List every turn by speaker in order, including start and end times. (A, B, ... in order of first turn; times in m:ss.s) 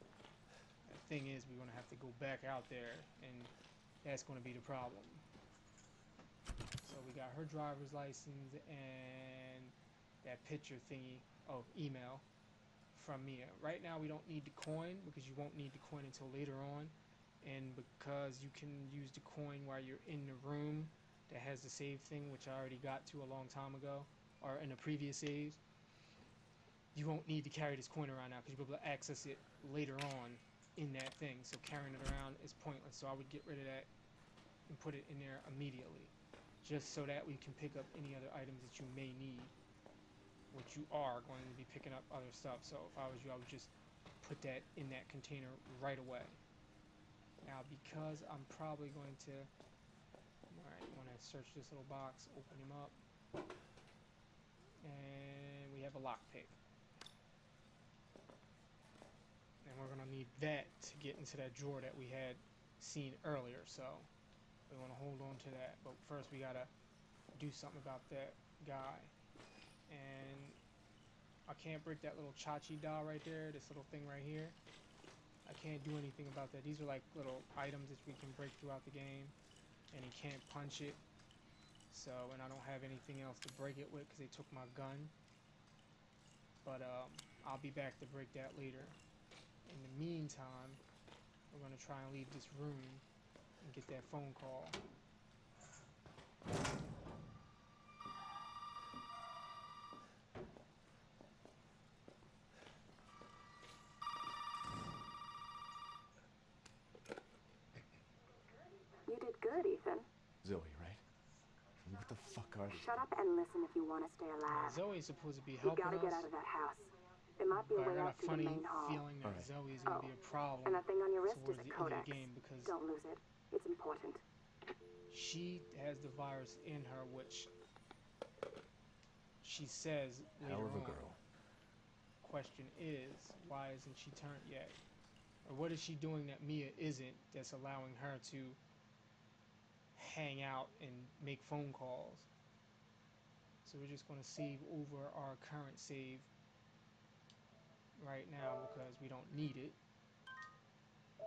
0:00.8-0:05.2 A
0:06.8-0:12.2 A
0:12.9-0:25.6 A
0:26.9-0:33.9 A
0:34.7-0:39.5 A
0:40.5-0:46.4 A
0:47.4-0:49.5 A
0:50.5-0:53.0 A
0:54.8-0:56.6 A
0:59.6-1:04.1 A
1:04.7-1:06.7 A
1:07.3-1:09.1 A
1:09.9-1:10.6 A
1:11.5-1:14.6 A
1:15.4-1:19.3 A
1:19.9-1:21.0 A
1:21.9-1:25.1 A
1:26.6-1:29.0 A
1:29.6-1:30.8 A
1:31.5-1:33.0 A
1:33.6-1:34.8 A
1:49.1-1:50.0 B
1:50.4-1:51.0 C
1:51.8-1:53.0 C
1:52.7-1:54.8 B
1:54.5-1:56.3 A
1:55.6-1:59.0 B
1:57.5-2:02.8 A
1:59.2-1:59.5 C
1:59.8-2:00.1 B
2:00.6-2:04.2 B
2:05.1-2:07.5 A
2:09.4-2:11.1 A
2:10.4-2:11.2 C
2:12.2-2:14.8 A
2:15.4-2:18.6 A
2:19.9-2:22.3 A
2:23.6-2:26.3 A
2:28.0-2:29.8 A